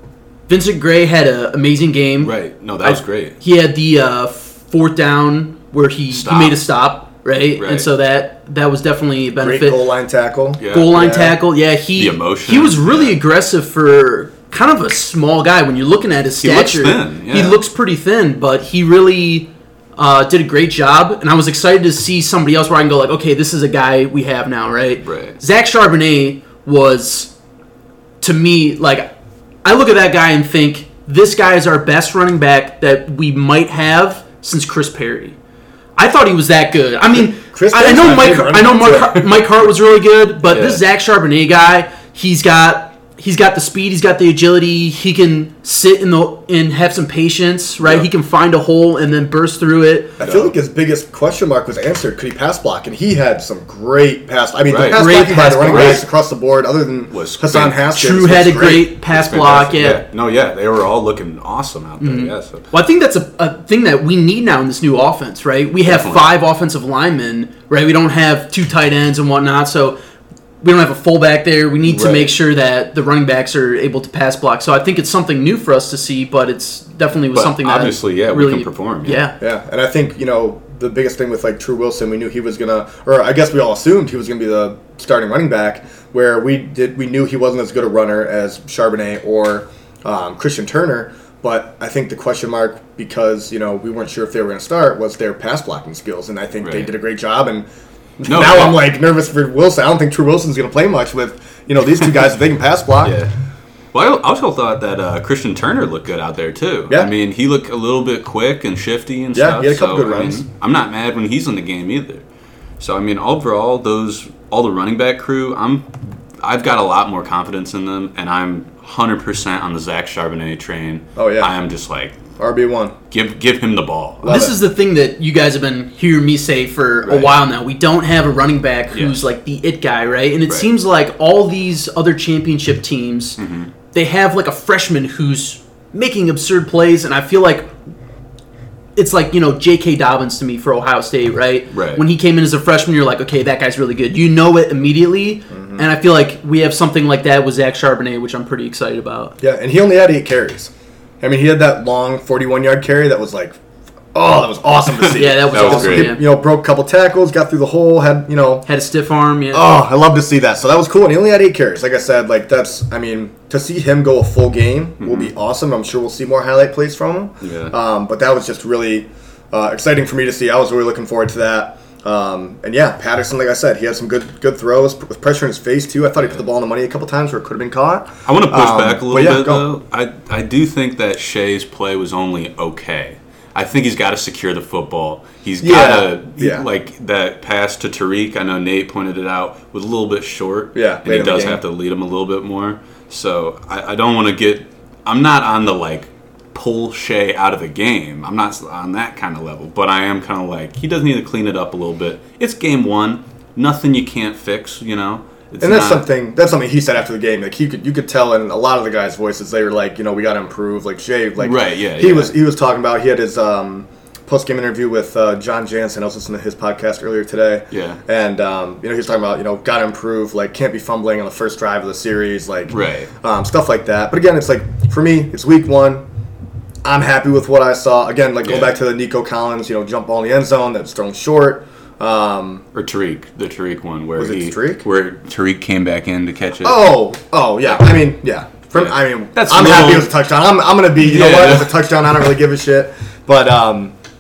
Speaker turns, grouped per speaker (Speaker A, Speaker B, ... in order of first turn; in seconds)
Speaker A: 0.5-9.8, 10.6-27.3, 28.2-29.1, 29.6-35.4, 36.0-50.2, 54.9-56.1, 57.9-60.0, 62.0-70.0, 70.6-79.4, 124.3-133.4, 133.9-137.7, 139.0-149.4, 155.1-156.2, 158.7-159.7
Speaker B: 2.2-3.4, 6.1-6.6, 7.6-7.9, 10.6-11.0, 12.0-13.2, 16.4-17.6, 25.0-25.4, 38.8-39.5, 40.5-40.8, 50.2-50.5, 54.7-56.0, 57.1-57.8, 59.0-62.7, 65.8-66.3, 71.9-72.3, 77.3-79.3, 96.6-96.9, 98.2-98.9, 103.0-103.3, 103.9-112.2, 112.8-122.2, 123.1-124.5, 128.9-129.2, 133.4-133.7, 141.7-142.0, 155.0-156.2, 165.0-165.3, 167.4-167.8, 178.3-206.1, 211.4-212.3, 217.7-218.0, 222.7-223.1, 228.4-228.8, 232.7-236.9, 238.7-240.1, 241.0-241.9
Speaker C: 9.4-11.4, 37.1-39.1, 50.2-58.9, 79.4-97.7, 98.2-103.2, 109.3-110.4, 121.2-121.5, 122.4-123.0, 124.2-124.6, 145.5-145.9, 149.4-153.6, 154.1-158.7, 159.5-179.7, 185.6-186.7, 190.8-191.6, 205.6-226.1, 226.8-232.7, 234.2-234.8, 236.6-243.9